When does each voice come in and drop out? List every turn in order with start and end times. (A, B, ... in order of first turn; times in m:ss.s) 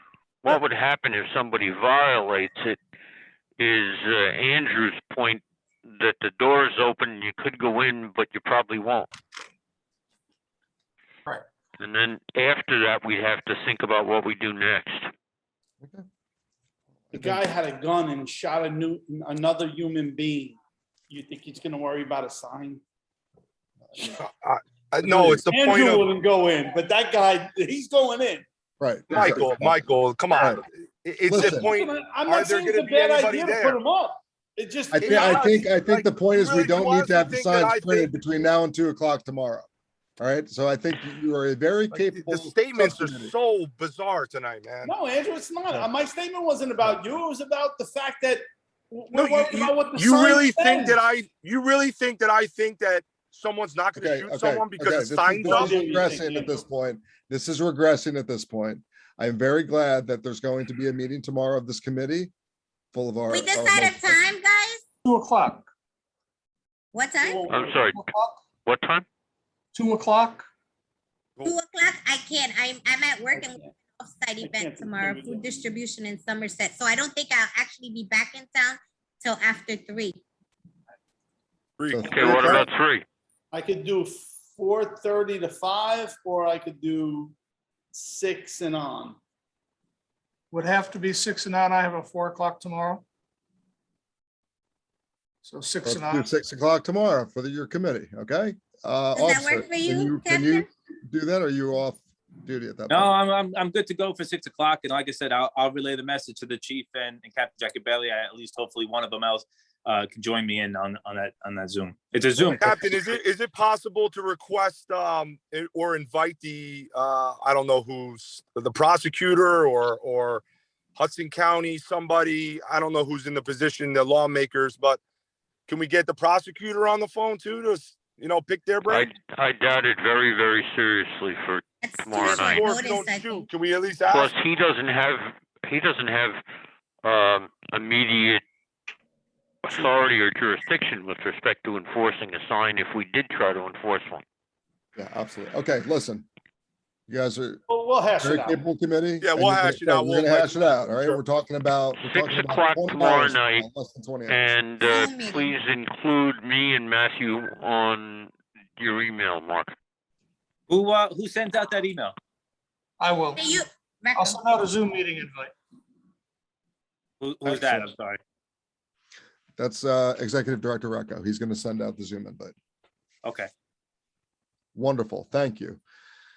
0:00.4-0:02.8 A
0:03.6-0:09.1 A
0:11.8-0:15.1 A
0:17.0-0:17.4 B
0:17.1-0:20.6 C
0:21.1-0:22.8 C
0:24.1-0:26.1 D
0:25.1-0:28.4 C
0:28.8-0:30.6 B
0:29.1-0:33.8 D
0:31.3-0:31.7 B
0:31.4-0:35.5 C
0:34.9-0:39.7 B
0:35.0-0:38.2 D
0:40.2-0:43.3 B
0:41.9-0:44.9 D
0:44.8-0:51.0 C
0:49.1-0:55.9 D
0:54.0-1:02.3 B
0:55.5-0:56.6 C
1:02.9-1:04.2 B
1:03.3-1:04.8 E
1:05.0-1:05.7 F
1:06.9-1:07.4 E
1:07.2-1:07.8 C
1:07.5-1:08.0 A
1:07.9-1:08.4 F
1:08.6-1:09.0 A
1:09.7-1:10.4 F
1:11.4-1:20.2 E
1:13.3-1:13.7 C
1:14.4-1:15.5 C
1:21.8-1:22.7 D
1:21.9-1:22.6 B
1:22.1-1:23.0 A
1:23.5-1:27.3 C
1:27.9-1:29.2 C
1:30.5-1:33.0 F
1:35.4-1:36.3 F
1:35.8-1:43.2 B
1:39.1-1:40.7 E
1:42.9-1:53.1 G
1:52.5-2:00.4 D
2:01.0-2:05.0 D
2:05.7-2:09.1 D
2:08.8-2:12.7 A
2:11.8-2:13.5 E
2:12.2-2:14.3 D
2:14.0-2:16.4 A
2:17.0-2:18.4 A
2:19.6-2:24.2 A
2:25.0-2:26.3 B
2:27.1-2:27.6 B
2:27.7-2:28.6 C
2:28.2-2:34.4 B
2:29.2-2:31.2 D
2:32.0-2:33.6 A
2:34.3-2:39.7 A
2:34.8-2:35.6 E
2:40.7-2:42.1 G
2:43.0-2:43.6 F
2:43.4-2:44.4 E
2:44.2-2:45.5 F
2:47.2-2:48.2 G
2:47.4-2:47.9 B
2:49.6-2:52.5 B
2:53.2-2:53.5 G
2:54.7-2:55.8 B